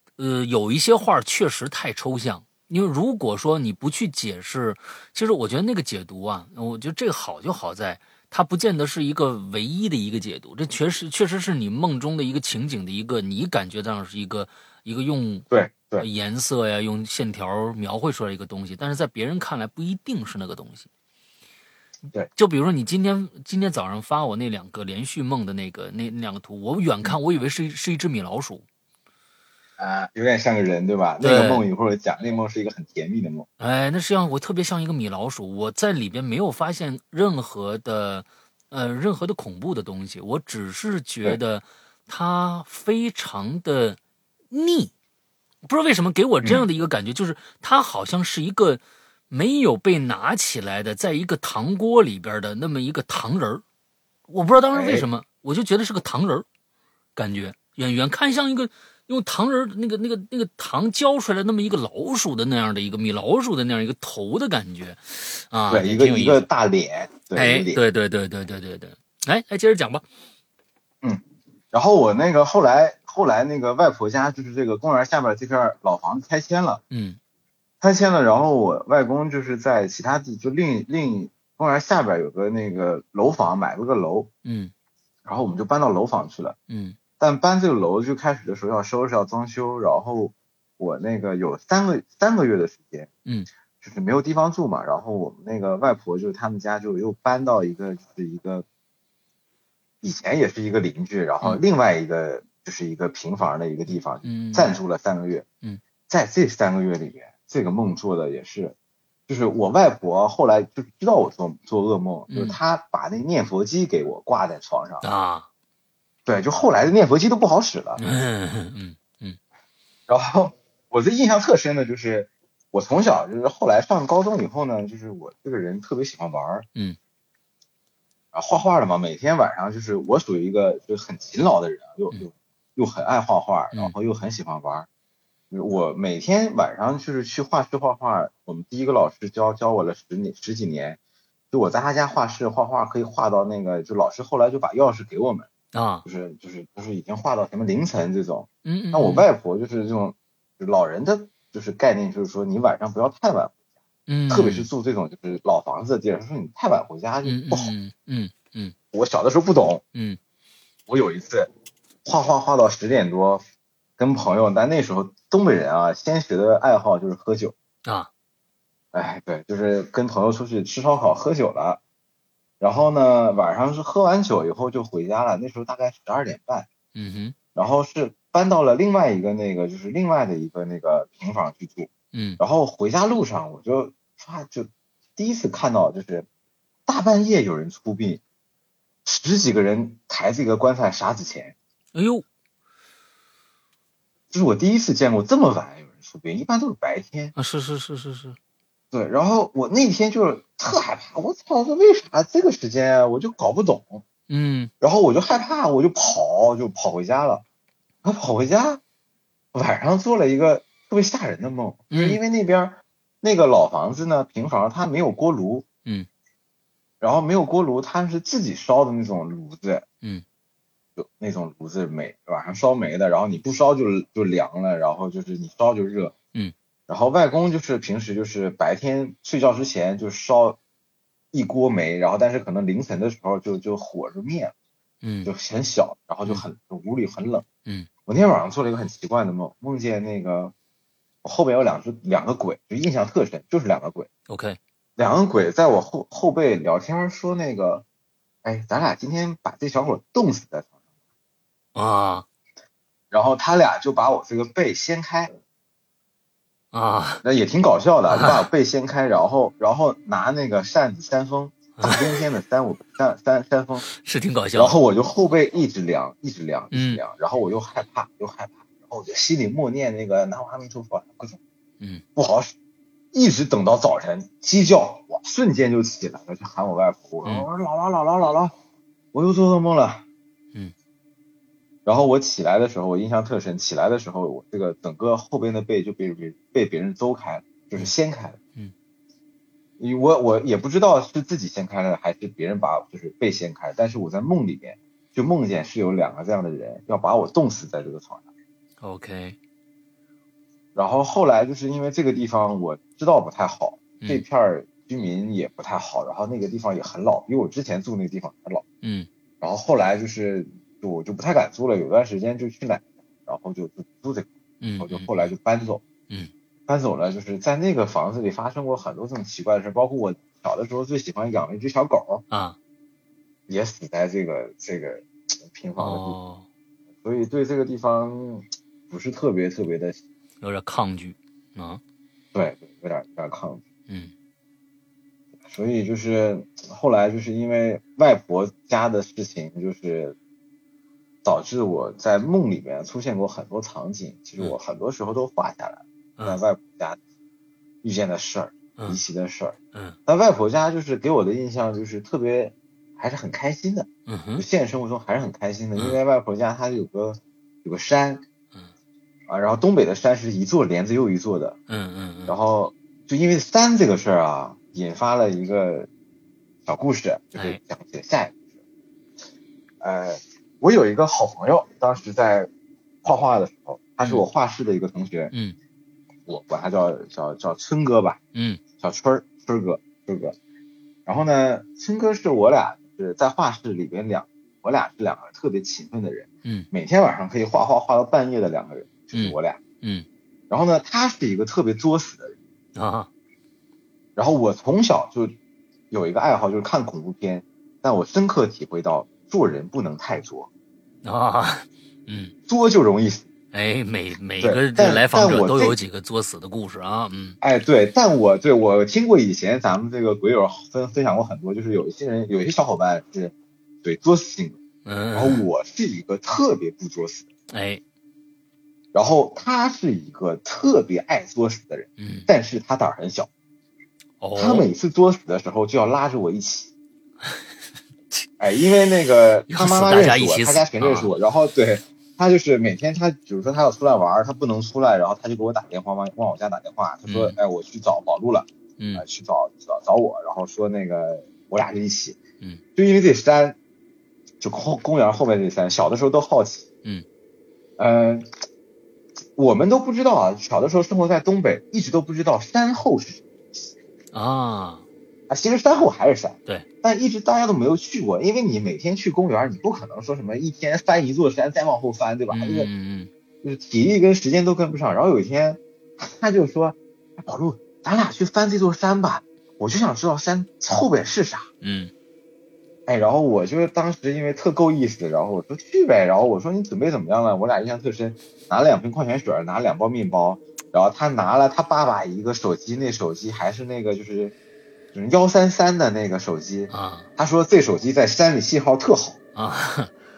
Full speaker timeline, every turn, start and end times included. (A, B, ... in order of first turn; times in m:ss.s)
0:00.2-0:15.5 A
0:15.5-0:16.1 B
0:16.0-0:20.9 A
0:22.4-0:28.6 A
0:29.8-0:33.5 B
0:31.2-0:31.7 A
0:33.6-0:44.0 A
0:44.5-0:44.9 A
0:45.6-0:53.6 A
0:54.3-0:56.5 A
0:54.7-0:55.1 B
0:57.2-1:06.5 A
1:05.7-1:07.8 B
1:07.4-1:10.0 A
1:11.0-1:16.8 B
1:16.9-1:17.2 A
1:17.8-1:24.3 B
1:24.4-1:24.7 A
1:25.3-1:26.6 B
1:26.7-1:27.0 A
1:27.2-1:33.1 B
1:33.8-1:38.6 B
1:40.0-1:45.5 B
1:44.2-1:44.8 A
1:46.1-1:48.8 B
1:49.3-1:55.0 B
1:52.3-1:52.6 A
1:55.0-1:55.5 A
1:56.3-1:58.0 B
1:58.0-1:59.4 A
2:00.1-2:06.7 B
2:08.3-2:14.9 B
2:15.5-2:21.0 B
2:21.5-2:25.5 B
2:25.7-2:26.1 A
2:26.0-2:33.6 B
2:28.6-2:29.3 A
2:34.1-2:34.7 A
2:34.3-2:37.7 B
2:37.2-2:38.8 A
2:38.9-2:39.8 B
2:40.9-2:41.5 B
2:42.0-2:43.4 B
2:44.0-2:47.6 B
2:48.9-2:51.8 B
2:52.6-2:56.7 B
2:57.0-2:57.4 A
2:57.6-3:06.3 B
3:02.1-3:02.4 A
3:06.9-3:08.2 B
3:09.0-3:11.6 B
3:11.9-3:12.2 A
3:14.3-3:17.3 B
3:17.4-3:18.4 A
3:18.9-3:24.0 B
3:24.3-3:24.7 A
3:24.8-3:27.4 B
3:28.0-3:28.8 B
3:29.5-3:35.6 B
3:31.9-3:32.2 A
3:37.0-3:39.9 B
3:41.0-3:46.1 B
3:46.9-3:50.6 B
3:51.3-3:54.5 B
3:55.0-3:55.3 A
3:55.3-3:57.5 B
3:58.1-4:00.5 B
4:01.2-4:04.1 B
4:04.3-4:04.6 A
4:05.0-4:07.8 B
4:08.4-4:10.7 B
4:11.8-4:12.3 A
4:13.1-4:15.3 B
4:16.7-4:17.2 A
4:17.2-4:23.9 B
4:18.1-4:18.4 A
4:21.8-4:22.1 A
4:24.0-4:24.8 A
4:24.6-4:31.4 B
4:26.7-4:27.0 A
4:32.2-4:32.5 B
4:33.1-4:38.5 B
4:39.1-4:40.0 B
4:41.9-4:48.4 B
4:49.8-4:58.2 B
4:58.8-4:59.4 A
5:00.8-5:08.6 B
5:08.8-5:09.1 A
5:09.4-5:15.8 B
5:14.6-5:15.1 A
5:16.7-5:22.2 B
5:22.3-5:22.6 A
5:23.5-5:26.2 B
5:25.8-5:26.5 A
5:27.0-5:30.0 B
5:30.4-5:31.8 A
5:32.3-5:33.6 B
5:33.9-5:34.1 A
5:35.5-5:40.2 B
5:41.2-5:47.0 B
5:47.8-5:58.2 B
5:54.1-5:54.4 A
5:59.3-6:01.6 B
6:01.7-6:02.4 A
6:02.3-6:05.9 B
6:06.7-6:08.4 B
6:07.4-6:07.6 A
6:09.8-6:12.5 B
6:13.0-6:15.3 B
6:14.0-6:14.3 A
6:16.3-6:18.2 B
6:18.4-6:18.6 A
6:18.8-6:20.4 B
6:21.1-6:29.6 B
6:29.1-6:30.1 A
6:30.5-6:32.4 B
6:32.8-6:33.1 A
6:34.2-6:35.4 B
6:35.9-6:40.5 B
6:41.0-6:42.3 A
6:42.5-6:43.3 B
6:43.5-6:47.4 A
6:44.4-6:45.8 B
6:47.4-6:54.6 B
6:54.8-6:55.4 A
6:55.1-6:57.3 B
6:57.5-6:57.8 A
6:58.9-7:03.3 B
7:02.0-7:02.3 A
7:04.2-7:04.7 A
7:04.4-7:06.7 B
7:08.4-7:22.2 B
7:09.5-7:11.1 A
7:17.1-7:17.4 A
7:18.8-7:19.0 A
7:22.8-7:23.6 B
7:24.4-7:26.7 B
7:27.8-7:28.3 B
7:29.4-7:33.3 B
7:34.1-7:34.8 A
7:35.3-7:42.7 B
7:42.3-7:43.1 A
7:43.4-7:51.5 B
7:51.6-7:51.9 A
7:52.9-8:04.3 B
8:04.9-8:09.2 B
8:06.7-8:07.1 A
8:09.4-8:09.9 A